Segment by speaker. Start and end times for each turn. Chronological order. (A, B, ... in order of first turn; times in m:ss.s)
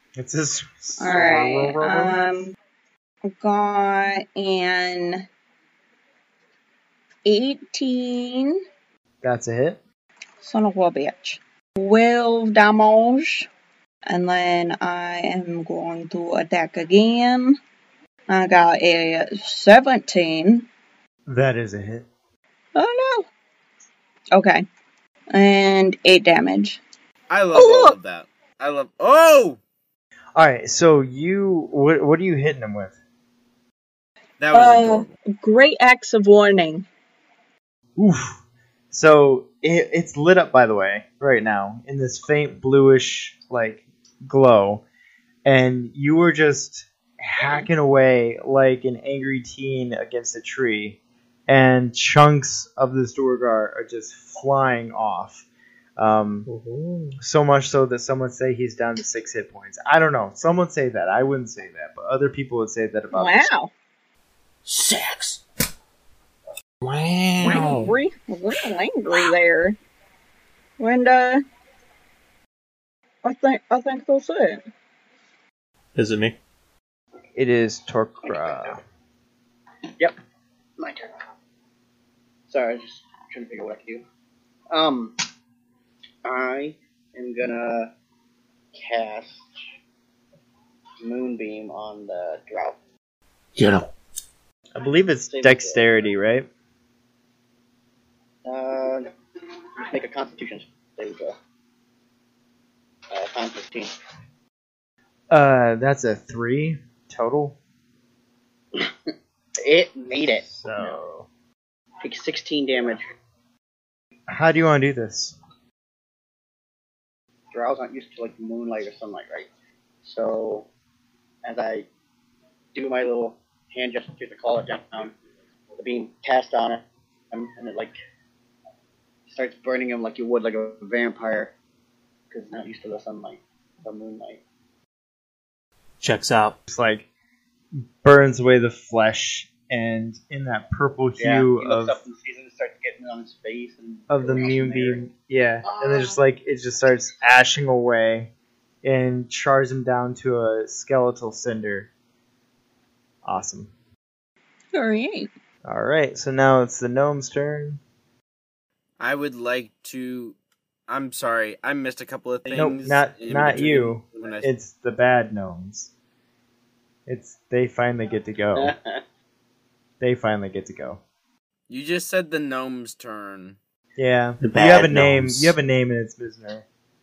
0:00.2-0:02.2 A
0:01.0-0:02.5 B
0:03.3-0:05.2 B
0:07.2-0:08.6 B
0:09.2-0:09.8 A
0:10.4-0:13.5 B
0:14.1-0:17.6 B
0:18.3-0:20.7 B
0:21.2-0:22.1 A
0:22.7-0:23.3 B
0:24.3-0:24.6 B
0:25.3-0:26.8 B
0:27.3-0:29.6 C
0:27.5-0:28.0 B
0:30.3-0:32.9 A
0:34.4-0:35.1 C
0:34.5-0:36.8 B
0:38.0-0:38.4 A
0:38.9-0:44.8 A
0:45.4-0:55.4 A
0:56.0-0:56.5 A
0:56.4-0:57.1 D
0:57.2-1:03.5 A
1:03.1-1:03.7 B
1:04.6-1:05.4 D
1:06.8-1:08.0 D
1:07.4-1:09.8 B
1:10.8-1:11.4 B
1:13.2-1:14.6 B
1:16.0-1:16.4 D
1:17.4-1:18.8 A
1:18.2-1:18.8 E
1:20.8-1:21.1 E
1:22.5-1:24.0 E
1:24.7-1:25.2 E
1:26.2-1:27.9 E
1:28.7-1:29.5 E
1:31.0-1:32.8 E
1:33.6-1:33.9 D
1:34.7-1:36.5 A
1:35.3-1:36.0 E
1:38.4-1:39.0 E
1:39.8-1:41.4 E
1:43.1-1:43.9 E
1:45.3-1:47.6 A
1:48.7-1:51.0 E
1:50.4-1:51.3 A
1:52.0-1:53.0 E
1:54.3-1:55.4 A
1:57.5-1:59.5 E
2:00.0-2:00.7 E
2:01.4-2:01.9 E
2:02.7-2:05.1 E
2:05.7-2:07.9 E
2:09.3-2:11.5 E
2:12.3-2:14.4 E
2:16.0-2:16.6 D
2:16.7-2:17.1 A
2:18.0-2:22.0 A
2:21.2-2:25.0 E
2:24.1-2:28.3 A
2:25.6-2:26.2 E
2:28.8-2:31.9 A
2:33.2-2:33.7 A
2:34.7-2:35.3 B
2:35.6-2:37.8 A
2:39.0-2:40.4 C
2:40.9-2:44.5 C
2:42.5-2:45.9 A
2:47.0-2:48.7 A
2:48.6-2:49.0 E
2:50.0-2:51.0 A
2:51.7-2:53.6 C
2:54.0-2:56.6 A
2:54.4-2:55.5 D